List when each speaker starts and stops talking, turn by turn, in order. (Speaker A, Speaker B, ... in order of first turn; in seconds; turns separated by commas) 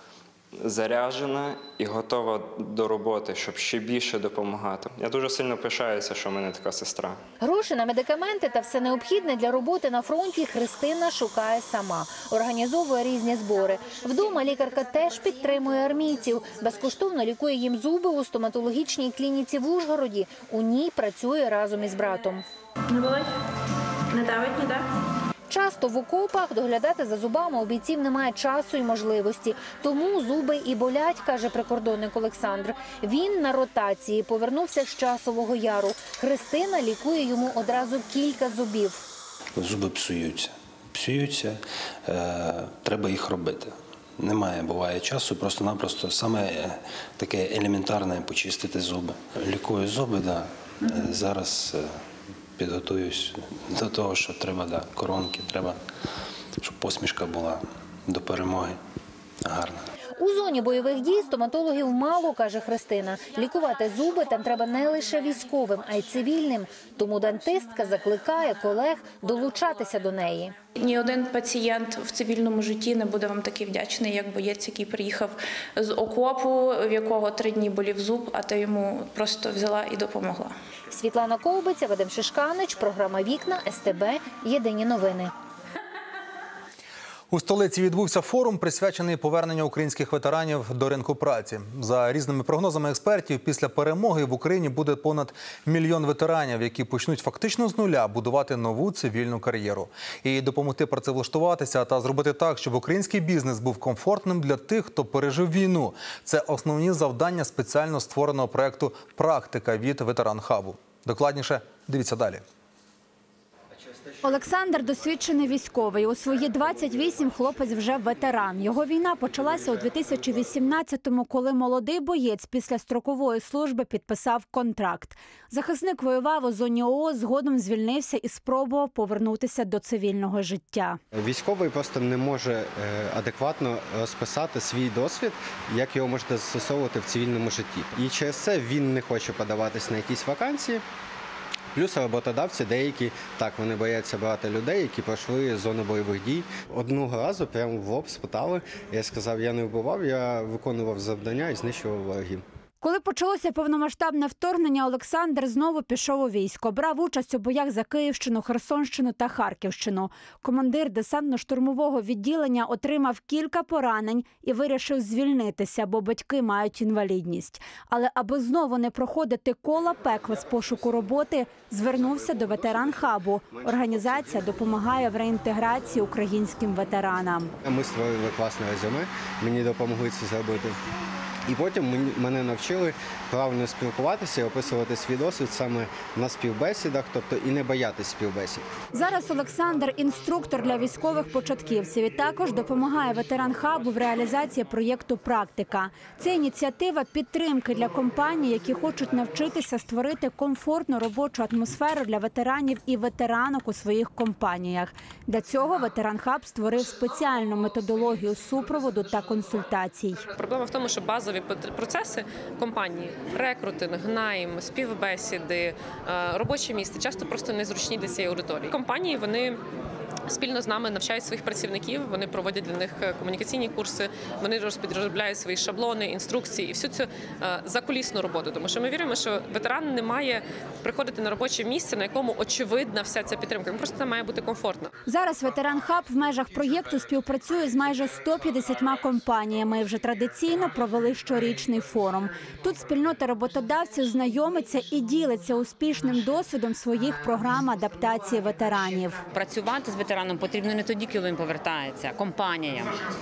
Speaker A: 0.6-7.2, Speaker B: 7.4-22.4, Speaker C: 22.9-23.3, Speaker C: 24.1-24.8, Speaker B: 25.5-39.0, Speaker D: 39.6-51.9, Speaker D: 52.6-55.8, Speaker D: 56.6-58.8, Speaker D: 59.5-59.9, Speaker B: 60.2-70.6, Speaker C: 70.8-80.5, Speaker B: 80.9-85.3, Speaker E: 87.3-112.4, Speaker F: 114.2-131.0, Speaker G: 131.1-140.8, Speaker G: 141.8-152.4, Speaker F: 152.8-177.5, Speaker G: 172.2-174.6, Speaker G: 177.6-180.8, Speaker G: 181.5-188.7, Speaker F: 188.9-210.2, Speaker H: 210.3-219.6, Speaker H: 220.3-234.9, Speaker F: 235.1-249.2, Speaker I: 249.3-252.9